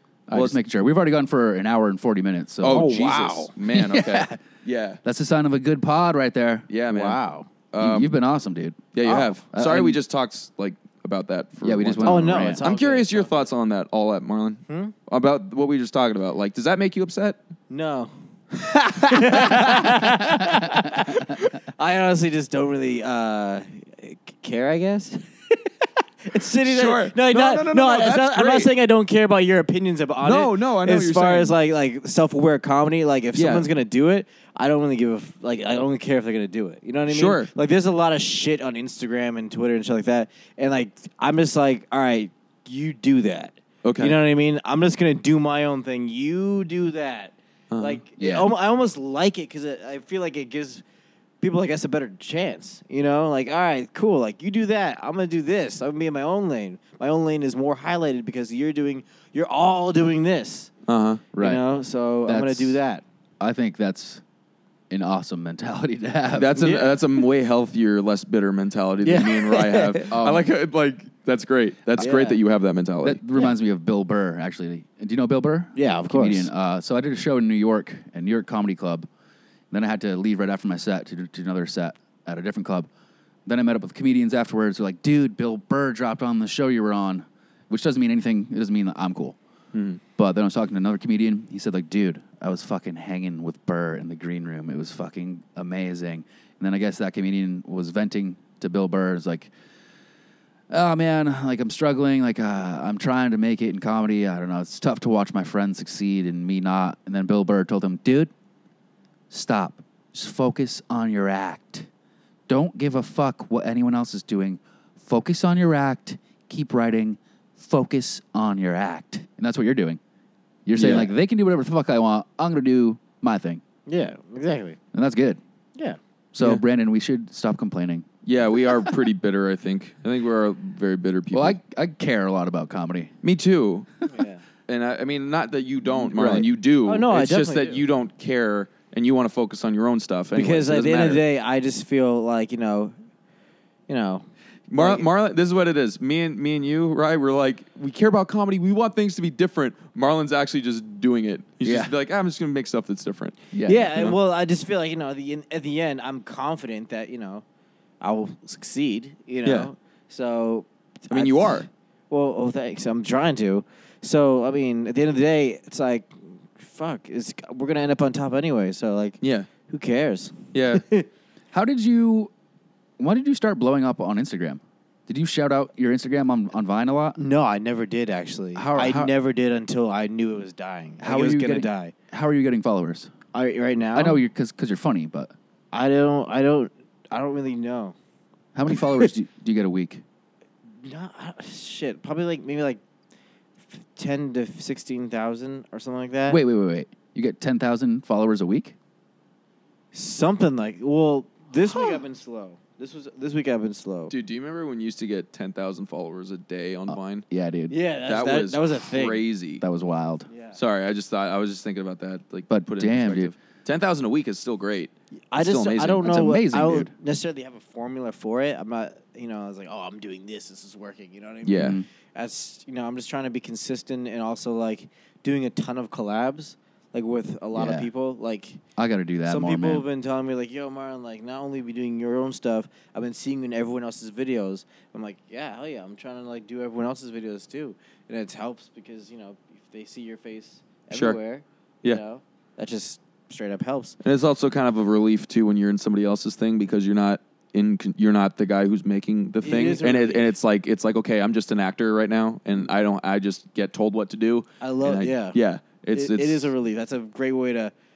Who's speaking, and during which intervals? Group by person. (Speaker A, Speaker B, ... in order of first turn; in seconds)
Speaker A: 0.3-2.9, 3.7-4.4, 5.0-6.7, 7.8-10.0, 11.6-12.6, 48.2-48.5, 61.3-61.6, 62.2-62.8, 63.4-64.2, 64.9-66.6, 70.1-70.5, 73.0-79.1, 79.7-82.9, 83.5-89.4, 90.2-99.5, 100.7-108.3, 109.3-111.9, 112.5-120.0, 120.7-123.6, 124.9-125.4, 126.3-128.1, 131.3-133.1, 136.1-136.5, 151.6-151.9, 153.5-154.0, 171.5-172.3, 173.0-177.2, 178.5-179.1, 181.0-183.1, 183.9-185.3, 188.5-190.0, 196.3-198.7, 206.9-207.7, 209.6-210.3, 212.5-213.3, 216.0-216.9, 221.6-221.8, 227.5-227.9, 228.8-229.8
Speaker B: 0.3-0.6, 2.6-5.0, 6.7-7.2, 7.7-8.1, 8.9-17.4, 18.8-20.0, 26.6-28.7, 30.2-31.6, 33.3-33.7, 37.1-37.5, 43.8-44.2, 47.7-48.0, 60.9-61.2, 66.3-73.2, 89.7-90.0, 120.8-121.1, 128.2-131.6, 133.2-133.9, 134.7-141.2, 144.7-153.4, 159.4-159.7, 161.1-161.7, 169.2-169.5, 170.5-170.8, 204.1-207.2, 208.1-209.6, 210.5-216.1, 221.4-221.8, 240.9-241.2, 244.0-256.5
Speaker C: 2.7-3.5, 6.9-7.5, 12.0-13.4, 14.7-14.9, 17.7-50.8, 51.4-60.7, 61.4-63.0, 66.6-67.2, 69.0-70.1, 72.0-72.4, 75.8-76.5, 123.9-124.8, 134.1-134.4, 136.8-137.8, 140.3-142.9, 143.9-145.1, 153.6-157.4, 158.0-171.1, 177.2-181.9, 183.3-184.2, 185.7-187.9, 188.7-189.1, 190.8-192.8, 193.9-196.4, 199.9-204.1, 207.7-209.2, 210.3-210.6, 215.3-228.6, 229.2-244.0, 249.4-250.3, 254.6-255.4, 255.9-257.7